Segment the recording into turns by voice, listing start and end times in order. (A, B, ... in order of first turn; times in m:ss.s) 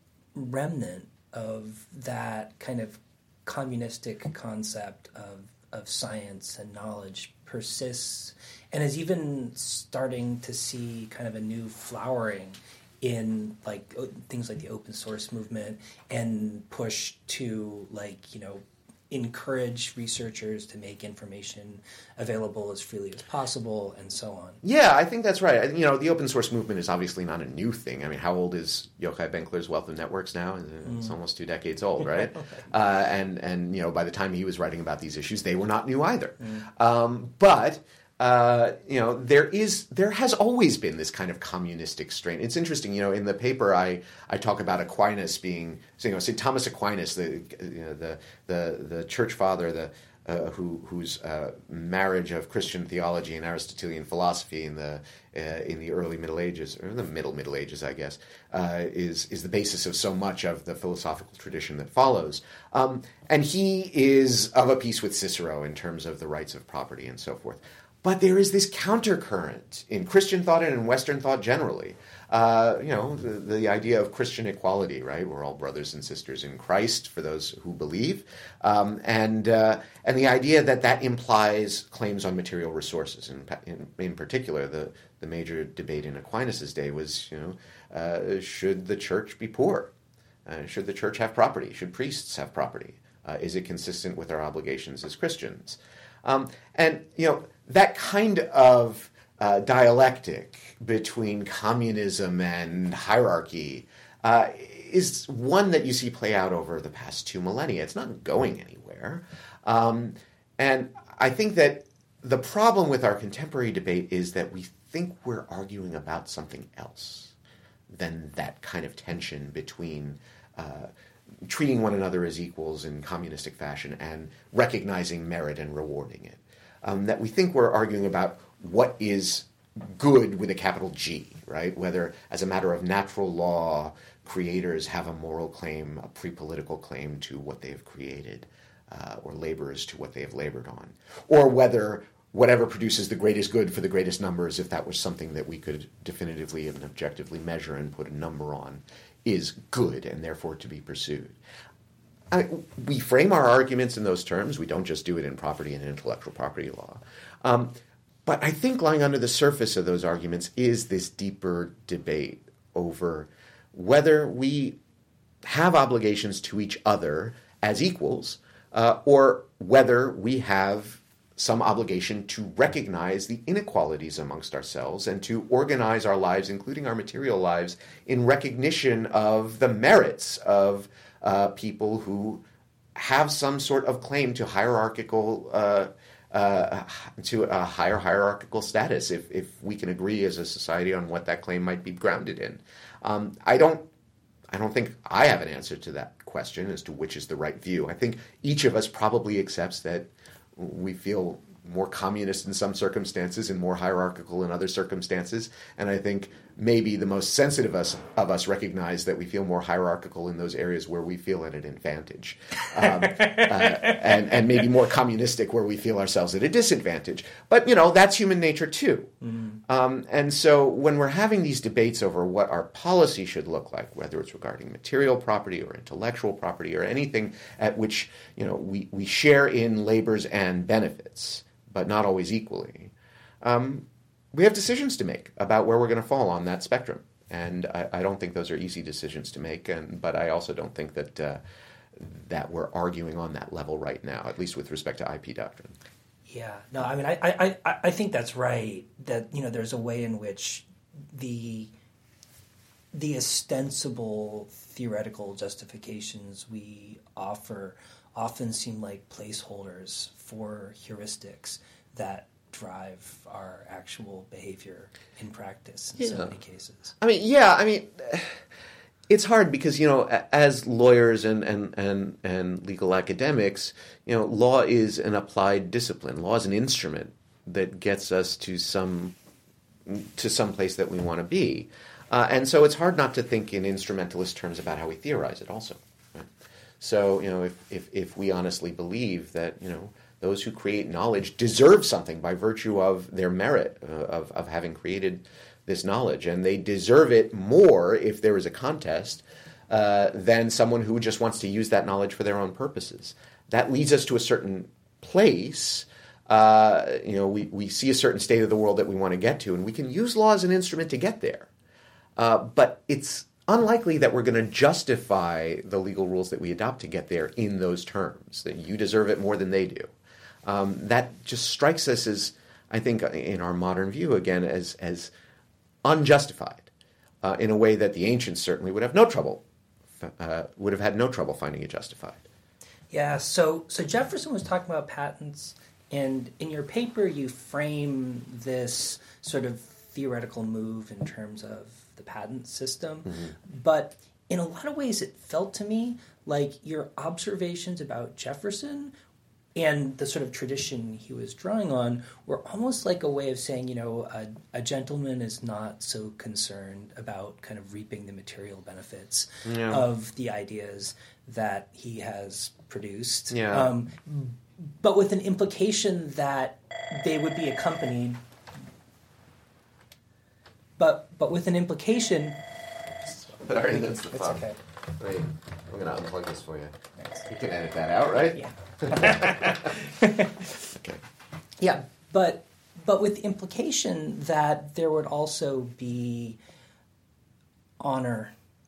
0:00.4-0:24.6 A
0:24.6-1:29.9 B
1:30.5-1:57.3 B
1:57.9-2:00.9 B
2:01.5-2:31.4 B
2:32.3-2:44.8 B
2:45.4-3:02.4 B
3:03.0-3:13.9 B
3:14.5-3:39.1 B
3:32.9-3:34.0 A
3:39.3-3:39.6 A
3:39.7-4:01.4 B
4:02.0-4:05.8 B
4:06.3-4:11.7 A
4:12.9-4:26.9 A
4:26.0-4:26.4 B
4:27.0-4:28.4 B
4:29.1-4:39.2 B
4:39.9-4:46.3 B
4:46.8-5:11.5 B
5:12.2-5:19.9 B
5:20.4-5:25.1 B
5:25.8-5:26.7 B
5:27.2-5:29.4 B
5:30.0-5:32.2 B
5:32.9-5:48.9 A
5:49.6-6:08.2 A
5:59.4-5:59.8 B
6:03.3-6:03.7 B
6:10.8-6:12.4 A
6:13.1-6:14.4 B
6:14.0-6:14.6 A
6:15.0-6:19.7 B
6:18.4-6:20.3 A
6:20.7-6:21.0 B
6:21.6-6:26.4 A
6:27.8-6:28.3 A